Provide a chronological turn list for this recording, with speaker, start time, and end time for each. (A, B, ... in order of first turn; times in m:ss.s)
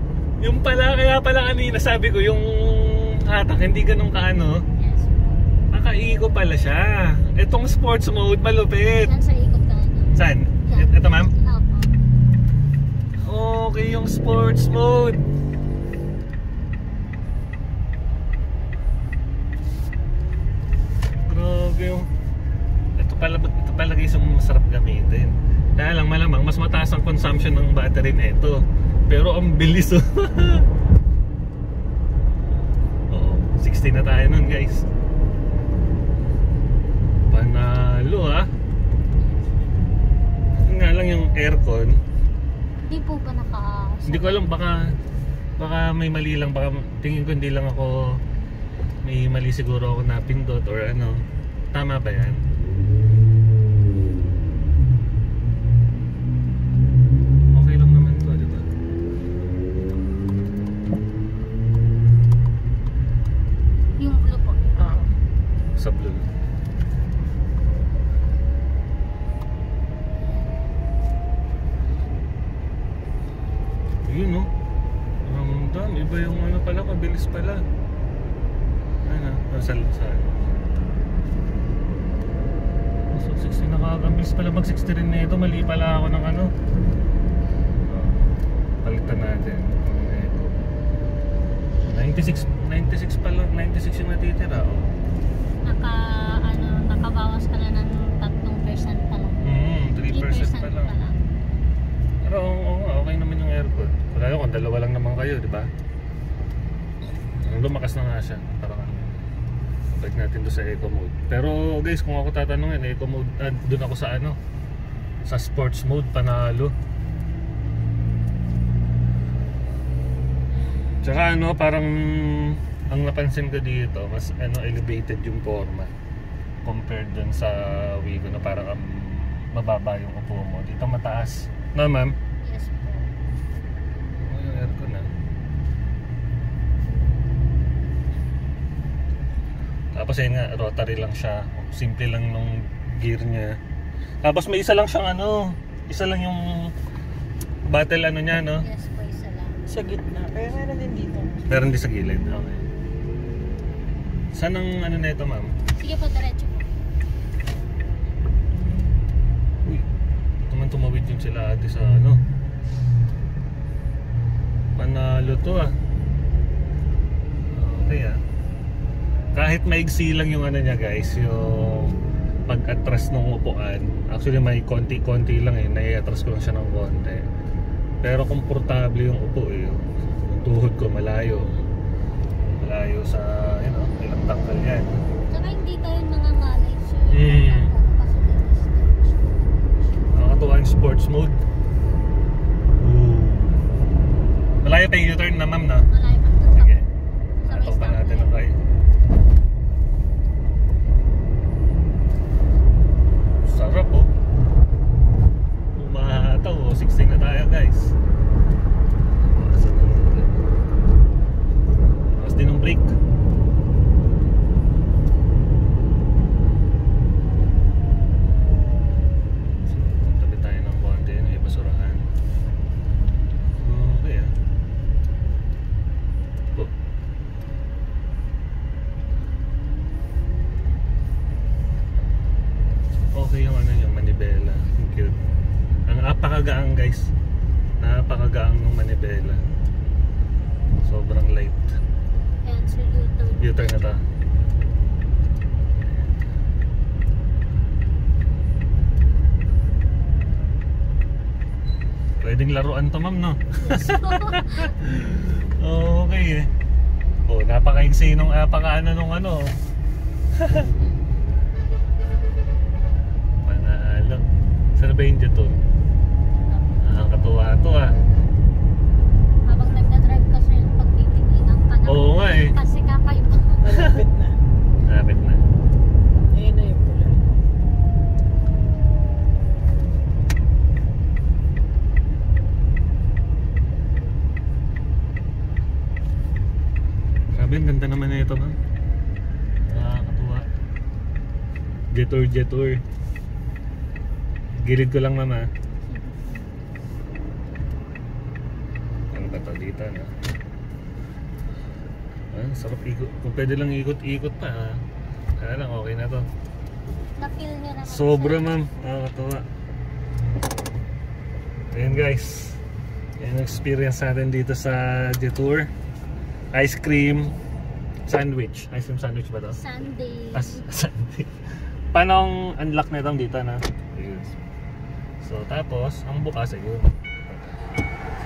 0:00.4-0:04.6 A
0:04.8-0:05.4 B
0:05.7-0:09.1 A
0:09.0-0:12.0 B
0:10.2-0:11.3 A
0:13.2-0:15.3 A
0:21.2-0:22.1 A
0:23.0-0:30.6 A
0:33.1-0:34.9 A
0:37.3-0:38.5 A
0:39.2-0:39.5 B
0:40.6-0:42.0 A
0:42.8-0:44.5 B
0:44.1-0:44.9 A
0:45.6-0:48.2 A
0:49.0-0:52.4 A
0:57.5-0:58.7 A
1:04.0-1:05.0 B
1:05.8-1:06.2 A
1:14.0-1:14.5 A
1:15.2-1:17.6 A
1:19.0-1:20.3 A
1:23.1-1:26.5 A
1:27.9-1:28.2 A
1:28.8-1:30.6 A
1:31.8-1:34.9 A
1:35.6-1:39.4 B
1:39.4-1:40.9 A
1:40.0-1:41.2 B
1:42.2-1:45.7 A
1:47.4-1:49.0 A
1:49.9-1:54.4 A
1:55.2-1:56.7 A
2:01.0-2:05.9 A
2:06.6-2:12.1 A
2:12.4-2:13.1 B
2:14.2-2:15.1 A
2:19.9-2:23.6 A
2:24.2-2:26.7 A
2:27.7-2:28.6 A
2:28.6-2:29.6 B
2:29.7-2:31.5 C
2:31.5-2:32.6 A
2:34.3-2:35.5 A
2:35.8-2:36.7 B
2:40.5-2:42.2 A
2:44.8-2:45.7 A
2:47.5-2:48.2 A
2:49.3-2:51.9 A
2:52.5-2:57.2 A
2:58.0-3:01.5 A
3:02.6-3:05.0 A
3:05.3-3:09.3 B
3:07.1-3:07.7 A
3:10.1-3:11.4 A
3:12.8-3:13.6 A
3:14.6-3:15.9 A
3:15.9-3:16.7 B
3:16.5-3:16.8 A
3:17.4-3:18.4 B
3:17.5-3:18.6 A
3:23.4-3:24.1 A
3:25.8-3:27.9 A
3:29.3-3:30.4 A
3:32.2-3:32.9 A
3:39.6-3:42.1 A
3:43.6-3:44.3 A
3:53.1-3:55.2 A
3:55.9-3:57.1 A
3:57.8-3:59.4 A
4:00.8-4:01.7 A
4:02.4-4:04.0 B
4:03.4-4:04.0 A
4:05.8-4:06.2 A
4:12.2-4:16.5 A
4:13.6-4:14.8 B
4:17.2-4:19.5 A
4:20.4-4:20.6 A
4:20.7-4:21.0 B
4:23.4-4:24.2 A
4:24.8-4:25.6 A
4:26.3-4:26.8 B
4:26.8-4:28.0 A
4:29.4-4:33.8 B
4:31.8-4:32.5 A
4:33.6-4:34.4 C
4:34.8-4:35.4 A
4:36.3-4:37.2 C
4:47.3-4:48.6 A
4:49.7-4:50.4 A
4:51.9-4:52.8 A
4:54.6-4:55.5 A
4:55.9-4:56.5 B
4:59.1-5:00.1 A
5:02.3-5:04.8 A
5:05.4-5:06.2 A
5:07.2-5:08.6 B
5:07.8-5:09.4 A
5:11.7-5:12.6 A
5:13.2-5:15.7 A
5:16.5-5:17.3 A
5:18.1-5:19.6 A
5:19.6-5:20.6 B
5:20.3-5:21.3 A
5:21.9-5:24.4 A
5:25.2-5:27.6 A